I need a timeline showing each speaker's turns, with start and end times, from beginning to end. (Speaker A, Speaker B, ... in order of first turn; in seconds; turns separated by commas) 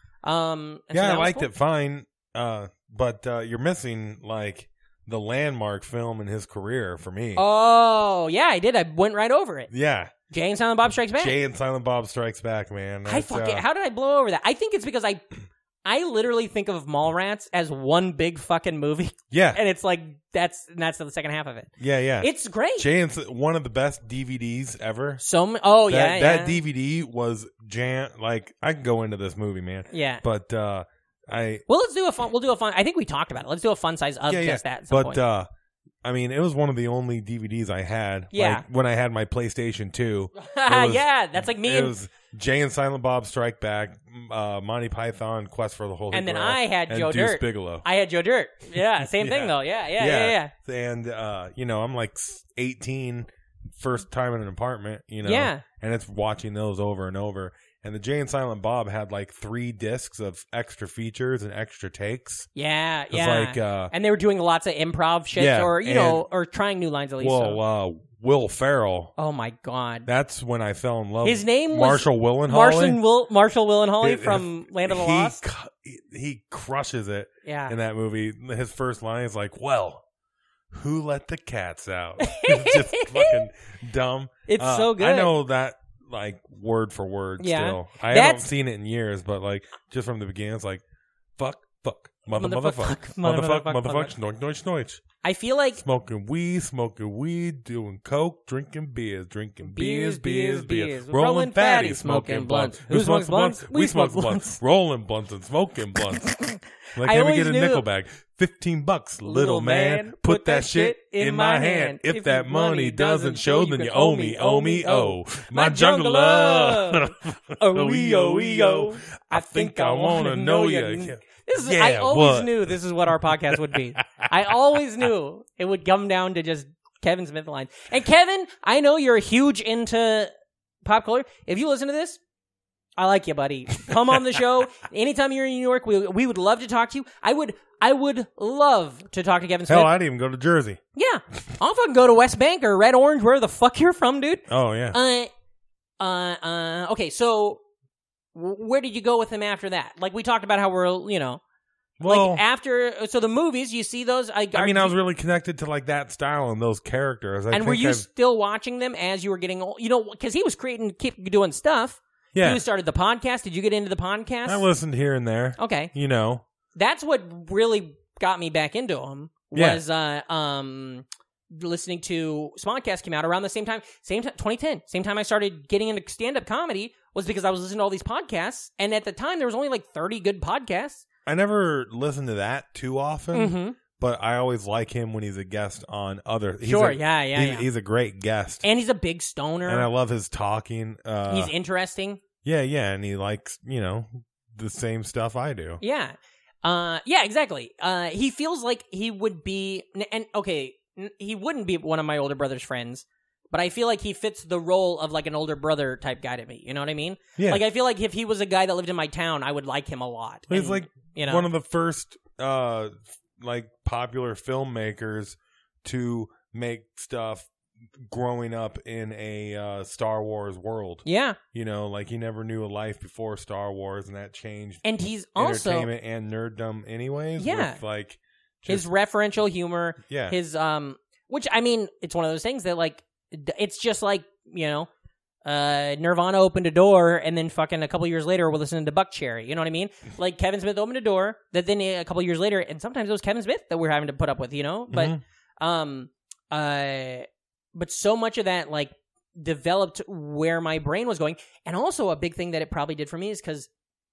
Speaker A: 0.2-1.5, Speaker B: 0.9-7.4, Speaker A: 7.3-9.7, Speaker B: 9.7-10.1, Speaker A: 10.3-11.3, Speaker B: 11.2-13.6, Speaker A: 13.1-15.2, Speaker A: 15.8-22.9, Speaker B: 19.3-19.6, Speaker B: 21.8-25.2, Speaker A: 25.2-26.6, Speaker B: 25.9-31.6, Speaker A: 29.9-30.2, Speaker A: 31.7-35.2, Speaker B: 34.3-35.5, Speaker B: 36.0-47.8, Speaker A: 38.3-38.6, Speaker A: 40.4-41.9, Speaker A: 46.1-50.5, Speaker B: 49.0-62.5, Speaker A: 55.2-55.6, Speaker A: 62.5-67.6, Speaker B: 63.1-63.9, Speaker B: 65.3-66.2, Speaker B: 67.2-69.1, Speaker A: 69.2-70.1, Speaker B: 70.0-73.0, Speaker A: 71.2-75.4, Speaker B: 74.0-80.0, Speaker A: 77.4-77.8, Speaker B: 80.7-90.8, Speaker A: 82.2-83.4, Speaker A: 84.5-85.3, Speaker A: 87.4-88.5, Speaker B: 91.4-95.0, Speaker A: 92.3-94.1, Speaker A: 95.2-95.8, Speaker B: 95.8-106.3, Speaker A: 99.6-104.6, Speaker A: 106.0-107.8, Speaker B: 106.9-122.7, Speaker A: 109.2-130.3, Speaker B: 123.3-124.3, Speaker A: 130.8-132.2, Speaker A: 133.0-139.9, Speaker B: 139.7-140.8, Speaker A: 140.9-145.3, Speaker B: 144.5-145.0, Speaker A: 146.0-147.6, Speaker A: 148.3-151.4, Speaker B: 152.0-152.4, Speaker A: 152.0-154.9, Speaker B: 154.5-158.0, Speaker A: 157.5-164.7, Speaker B: 162.3-162.6, Speaker B: 164.4-166.4, Speaker A: 165.6-165.9, Speaker A: 166.7-181.1, Speaker B: 169.5-169.8, Speaker B: 181.2-188.6, Speaker A: 183.3-183.8, Speaker A: 186.6-187.7, Speaker A: 188.6-189.9, Speaker B: 189.7-191.5, Speaker A: 191.3-192.2, Speaker B: 192.4-195.8, Speaker A: 195.8-211.5, Speaker B: 207.4-207.6, Speaker B: 210.5-224.8, Speaker A: 221.0-221.4, Speaker A: 224.8-225.9, Speaker B: 225.4-228.9, Speaker A: 227.4-227.8, Speaker A: 228.7-234.9, Speaker B: 230.1-230.3, Speaker A: 235.4-253.7, Speaker B: 244.9-245.2